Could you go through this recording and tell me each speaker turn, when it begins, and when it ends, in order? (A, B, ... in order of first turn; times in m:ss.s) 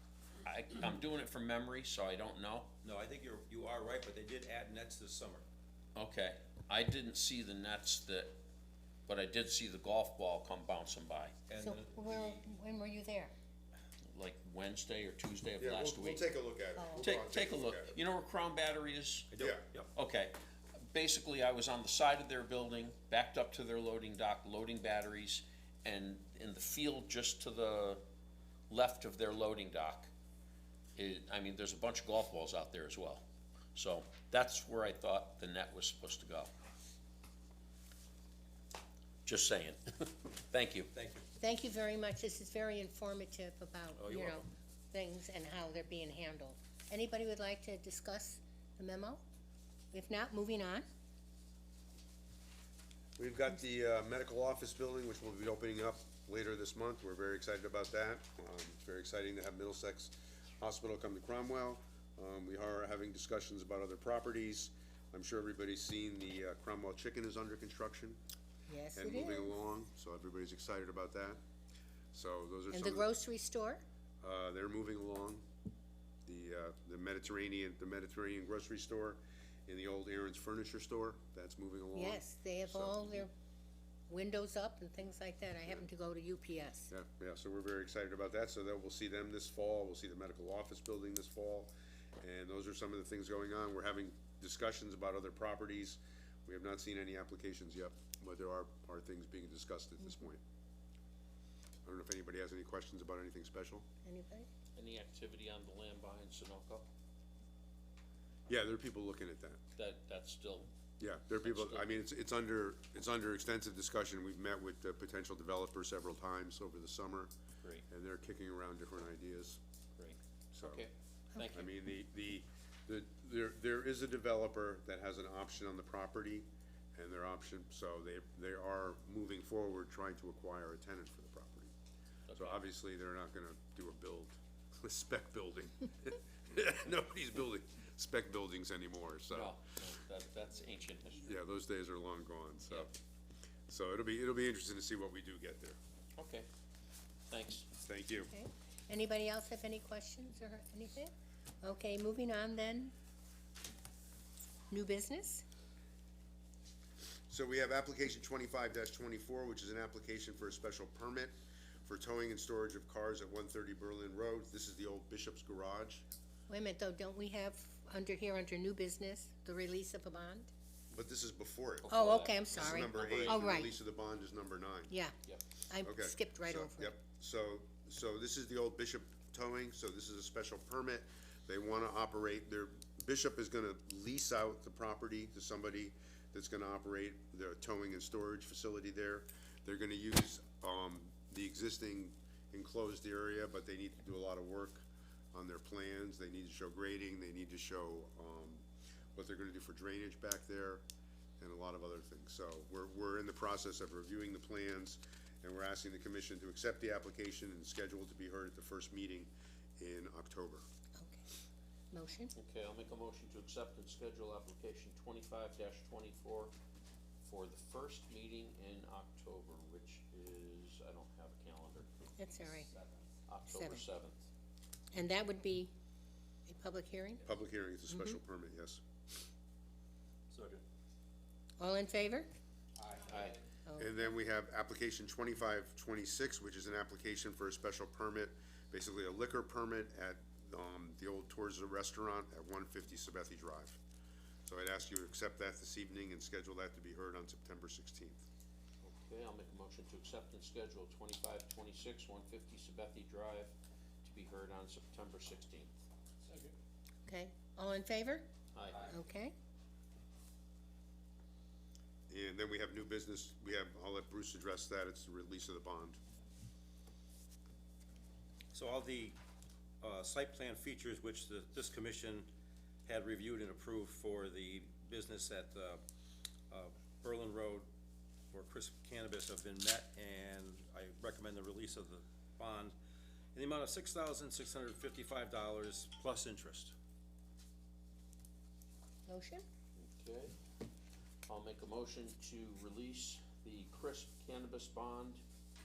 0:00.4-0:02.7 A
0:02.8-0:05.4 B
0:06.0-0:08.3 A
0:09.1-0:11.4 A
0:11.5-0:12.4 B
0:11.6-0:13.3 C
0:14.1-0:16.3 A
0:15.6-0:18.0 D
0:17.0-0:19.3 A
0:19.3-0:19.9 B
0:19.4-0:19.6 D
0:20.0-0:28.0 A
0:28.7-0:30.1 A
0:31.0-0:33.2 A
0:33.8-0:36.5 A
0:39.2-0:40.9 A
0:41.0-0:41.2 B
0:41.4-0:49.2 C
0:44.0-0:44.4 B
0:49.9-0:50.8 C
0:53.2-1:08.2 D
1:08.7-1:09.5 C
1:09.0-1:11.4 D
1:12.1-1:13.1 D
1:12.7-1:13.8 C
1:14.2-1:15.4 D
1:16.2-1:23.2 D
1:22.0-1:23.3 C
1:24.1-1:26.9 C
1:26.9-1:40.4 D
1:41.9-1:43.8 D
1:44.0-1:44.5 C
1:44.8-1:46.9 A
1:48.5-1:49.6 D
1:49.8-1:50.7 A
1:51.0-1:57.3 D
1:51.4-1:51.9 A
1:57.9-1:59.6 D
2:00.0-2:01.7 A
2:00.5-2:00.9 D
2:01.5-2:11.7 D
2:12.3-2:12.6 A
2:12.4-2:19.6 D
2:19.3-2:21.3 A
2:21.3-2:22.9 D
2:23.7-2:25.8 D
2:26.2-2:26.5 A
2:27.3-2:27.7 A
2:27.8-2:28.3 D
2:28.2-2:32.9 C
2:34.7-2:35.4 C
2:37.3-2:41.3 D
2:41.8-2:46.0 D
2:46.5-2:50.5 C
2:50.9-2:52.0 D
2:51.8-2:53.6 A
2:51.9-2:53.7 C
2:52.5-2:54.9 D
2:54.9-2:55.2 C
2:55.7-2:57.0 C
2:55.8-3:18.6 D
3:19.2-3:20.8 D
3:21.4-3:30.6 D
3:31.0-3:31.2 C
3:31.9-3:32.3 C
3:32.4-3:36.5 A
3:37.2-3:41.9 A
3:42.2-3:42.7 C
3:42.3-3:43.1 B
3:43.3-3:44.2 A
3:43.5-3:43.8 C
3:44.9-3:45.7 C
3:46.5-3:47.2 C
3:47.2-3:48.8 D
3:47.9-3:48.2 C
3:50.3-3:50.6 B
3:51.6-3:52.3 C
3:52.8-3:53.3 B
3:53.1-3:53.4 A
3:53.7-3:53.9 C
3:53.8-4:03.8 D
4:04.5-4:08.2 D
4:08.8-4:13.5 A
4:14.0-4:15.8 A
4:16.3-4:16.5 B
4:17.1-4:18.3 C
4:18.5-4:18.9 A
4:18.8-4:19.3 C
4:22.1-4:26.0 D
4:28.5-4:29.2 B
4:29.8-4:32.3 B
4:32.9-4:35.8 B
4:36.5-4:37.7 B
4:38.3-4:42.8 B
4:43.4-4:46.7 B
4:49.1-4:49.4 C
4:49.8-4:50.4 A
4:51.3-4:55.2 A